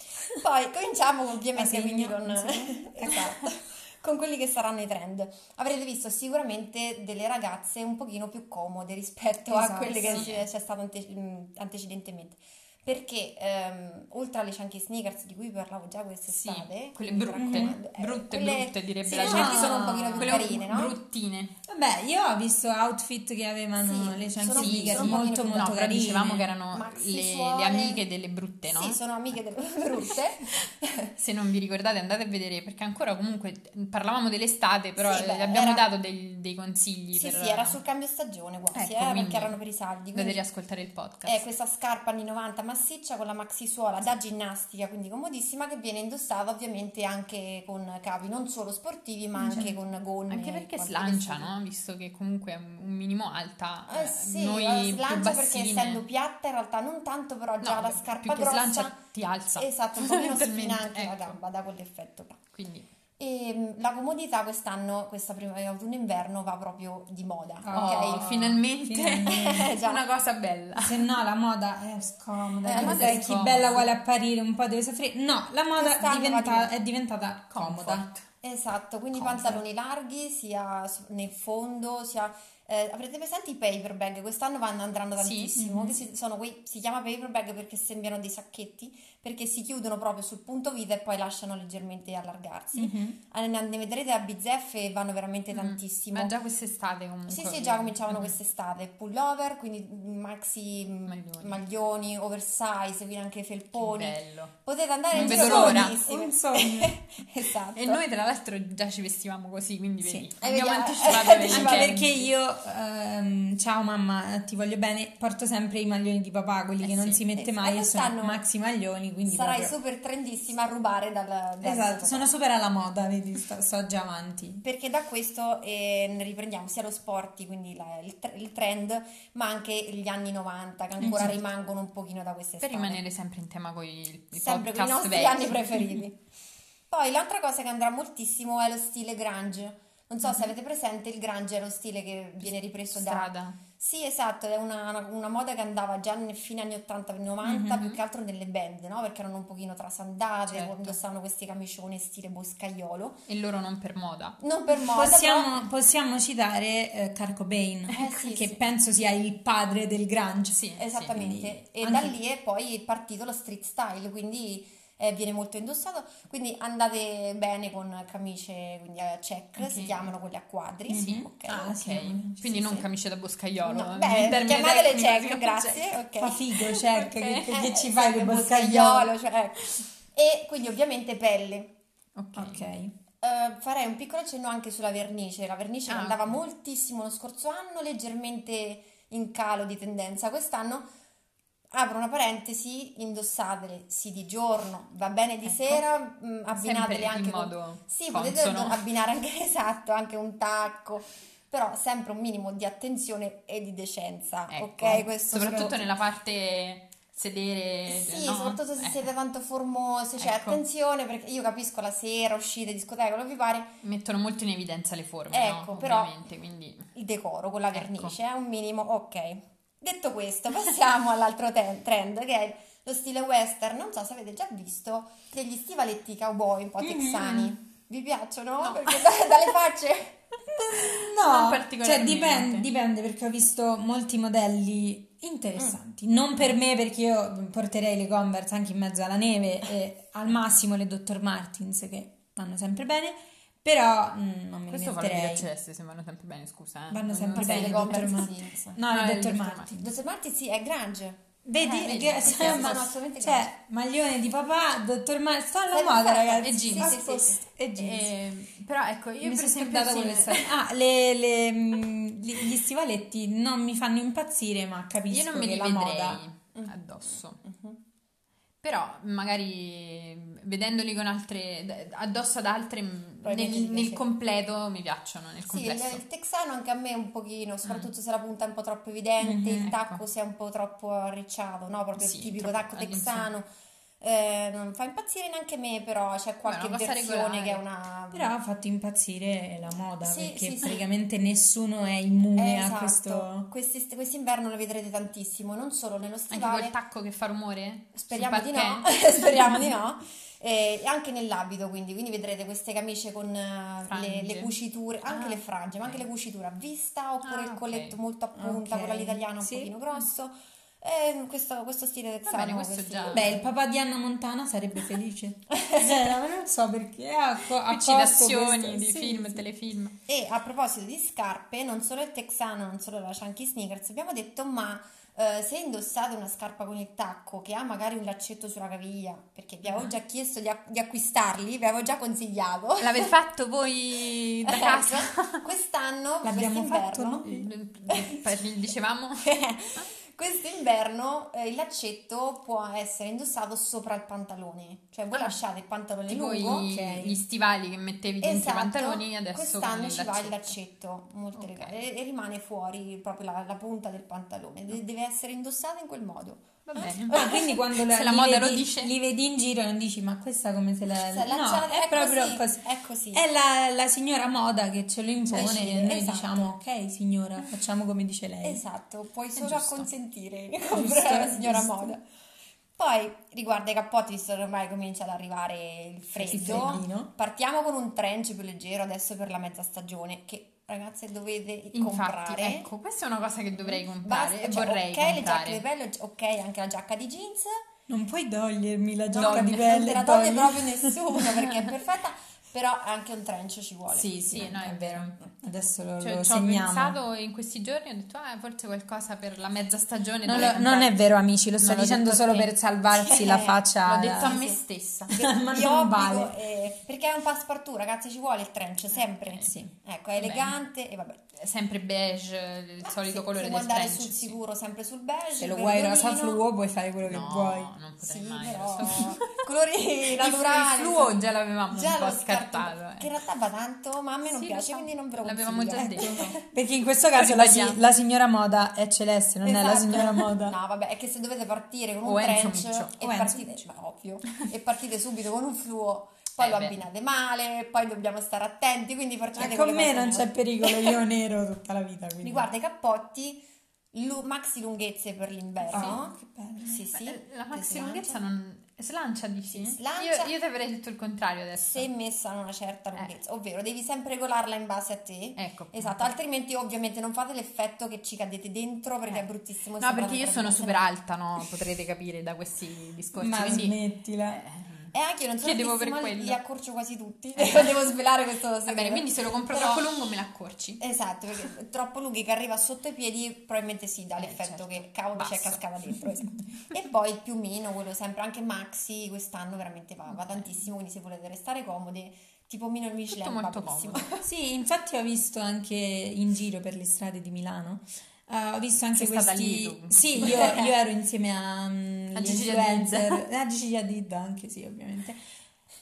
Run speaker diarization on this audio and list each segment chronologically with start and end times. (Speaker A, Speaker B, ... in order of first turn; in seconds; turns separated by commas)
Speaker A: 0.3-20.9, Speaker B: 1.5-3.3, Speaker B: 9.5-10.3, Speaker C: 10.0-10.4, Speaker C: 16.3-21.5, Speaker B: 17.3-17.8, Speaker B: 19.1-20.6, Speaker B: 21.7-26.5, Speaker A: 23.8-25.9, Speaker C: 24.6-29.0, Speaker A: 26.7-28.0, Speaker A: 28.6-31.1, Speaker C: 31.2-37.8, Speaker A: 35.0-35.9, Speaker A: 37.1-40.4, Speaker C: 38.7-39.5, Speaker C: 40.1-41.5, Speaker A: 41.2-51.5, Speaker B: 49.4-49.7, Speaker C: 50.3-56.0, Speaker A: 53.9-58.9, Speaker C: 57.6-61.4, Speaker A: 59.5-62.4, Speaker C: 62.5-62.9, Speaker A: 63.2-68.3, Speaker B: 67.6-69.7, Speaker C: 67.7-71.0, Speaker A: 69.2-70.0, Speaker B: 70.8-78.1, Speaker A: 72.6-73.4, Speaker C: 72.7-73.9, Speaker A: 75.7-76.7, Speaker C: 77.5-78.2, Speaker A: 78.4-96.3, Speaker B: 79.1-79.6, Speaker C: 85.2-85.5, Speaker B: 85.6-86.0, Speaker B: 92.7-93.2, Speaker C: 95.5-98.3, Speaker A: 97.3-108.0, Speaker C: 101.0-101.6, Speaker C: 103.7-104.5, Speaker C: 105.1-105.9, Speaker B: 105.1-106.9, Speaker C: 107.7-112.1, Speaker A: 110.4-112.3, Speaker B: 111.2-119.7, Speaker C: 116.8-117.2, Speaker A: 117.3-118.4, Speaker A: 119.2-122.3, Speaker B: 121.6-124.6, Speaker A: 124.6-133.0, Speaker B: 131.0-131.3, Speaker C: 131.0-131.3, Speaker C: 132.6-135.8, Speaker A: 134.3-136.2, Speaker A: 136.9-153.2, Speaker C: 140.2-140.5, Speaker C: 142.9-143.6, Speaker B: 147.4-147.8, Speaker C: 147.7-148.0, Speaker C: 150.5-151.0, Speaker C: 153.2-154.3, Speaker A: 154.4-155.5, Speaker B: 154.8-162.2, Speaker A: 157.9-158.6, Speaker C: 160.5-161.1, Speaker A: 160.8-171.7, Speaker C: 169.6-170.1, Speaker B: 170.9-172.4, Speaker C: 170.9-175.9, Speaker A: 172.4-172.9, Speaker A: 173.6-176.4, Speaker B: 176.2-179.1, Speaker C: 176.5-177.5, Speaker A: 177.4-181.7, Speaker C: 182.2-182.7, Speaker B: 182.3-182.9, Speaker A: 183.2-190.9, Speaker C: 185.9-186.4, Speaker A: 191.7-205.9, Speaker C: 195.4-195.8, Speaker C: 196.5-198.8, Speaker C: 204.5-209.1, Speaker A: 207.9-213.8, Speaker C: 210.2-210.6, Speaker C: 213.8-216.8, Speaker A: 215.3-216.3, Speaker A: 216.9-230.2, Speaker C: 217.7-218.1, Speaker B: 226.8-227.5, Speaker C: 228.6-229.2, Speaker B: 230.5-245.5, Speaker C: 230.8-232.7, Speaker C: 244.7-248.2, Speaker B: 246.9-249.9, Speaker A: 247.3-248.8, Speaker C: 248.9-249.7, Speaker A: 249.7-253.5, Speaker B: 251.4-258.1, Speaker C: 251.6-252.8, Speaker A: 255.7-257.4, Speaker C: 256.4-257.0, Speaker C: 257.8-260.5, Speaker B: 259.2-266.2, Speaker C: 265.1-267.4, Speaker A: 267.4-267.8, Speaker C: 268.6-276.0, Speaker A: 273.2-274.1, Speaker A: 275.5-283.4, Speaker C: 277.6-277.9, Speaker B: 279.2-279.8, Speaker C: 279.6-280.0, Speaker C: 282.0-283.3, Speaker A: 284.0-288.3, Speaker C: 286.4-287.6, Speaker B: 288.1-293.5, Speaker A: 290.0-290.8, Speaker A: 292.3-296.7, Speaker C: 296.3-299.7, Speaker A: 297.9-313.5, Speaker C: 303.9-304.5, Speaker C: 305.1-306.0, Speaker C: 307.2-308.0, Speaker B: 308.3-309.7, Speaker C: 312.3-313.3, Speaker B: 313.1-319.3, Speaker A: 315.6-316.1, Speaker C: 317.6-319.9, Speaker A: 320.1-333.1, Speaker C: 332.8-335.4, Speaker A: 334.5-337.2, Speaker B: 336.2-337.5, Speaker C: 337.2-339.9, Speaker A: 337.9-338.3, Speaker A: 339.2-346.7, Speaker C: 345.1-345.4, Speaker C: 346.1-350.6, Speaker B: 346.4-347.2, Speaker A: 348.2-357.7, Speaker C: 351.3-351.9, Speaker C: 356.7-357.2, Speaker B: 356.8-368.6, Speaker C: 357.8-358.9, Speaker A: 361.0-363.2, Speaker A: 365.3-366.5, Speaker A: 368.4-372.0, Speaker C: 369.3-369.9, Speaker B: 370.7-371.9, Speaker A: 372.8-382.7, Speaker B: 376.2-377.1, Speaker C: 376.3-376.8, Speaker C: 381.7-385.6, Speaker A: 383.5-387.5, Speaker B: 387.9-391.3, Speaker A: 389.1-394.5, Speaker C: 389.2-389.9, Speaker C: 393.9-395.1, Speaker B: 394.1-397.0, Speaker C: 396.0-401.0, Speaker B: 400.2-404.4, Speaker C: 401.6-402.5, Speaker A: 402.9-411.2, Speaker C: 403.8-405.2, Speaker B: 405.1-406.4, Speaker C: 409.2-409.5, Speaker B: 409.4-409.7, Speaker C: 410.2-410.6, Speaker C: 411.3-414.4, Speaker A: 412.8-416.4, Speaker B: 415.4-417.7, Speaker C: 417.0-419.1, Speaker A: 418.0-426.4, Speaker C: 420.2-423.1, Speaker C: 424.2-426.3, Speaker B: 425.8-430.6, Speaker C: 427.1-427.8, Speaker A: 429.4-441.0, Speaker C: 432.0-432.9, Speaker B: 433.0-433.6, Speaker C: 436.4-436.8, Speaker B: 439.3-442.5, Speaker A: 442.2-443.4, Speaker A: 443.9-448.2, Speaker C: 445.7-446.0, Speaker B: 445.7-446.8, Speaker C: 446.9-451.9, Speaker A: 449.5-450.3, Speaker A: 451.5-460.9, Speaker C: 455.4-456.1, Speaker C: 459.1-463.8, Speaker B: 463.1-464.4, Speaker C: 464.3-466.4, Speaker A: 464.9-470.0, Speaker C: 467.4-467.9, Speaker C: 468.7-470.8, Speaker A: 470.8-484.3, Speaker C: 474.2-476.0, Speaker C: 480.1-480.6, Speaker C: 483.1-484.1, Speaker B: 484.2-495.2, Speaker C: 488.9-490.6, Speaker A: 490.2-490.7, Speaker C: 492.1-493.2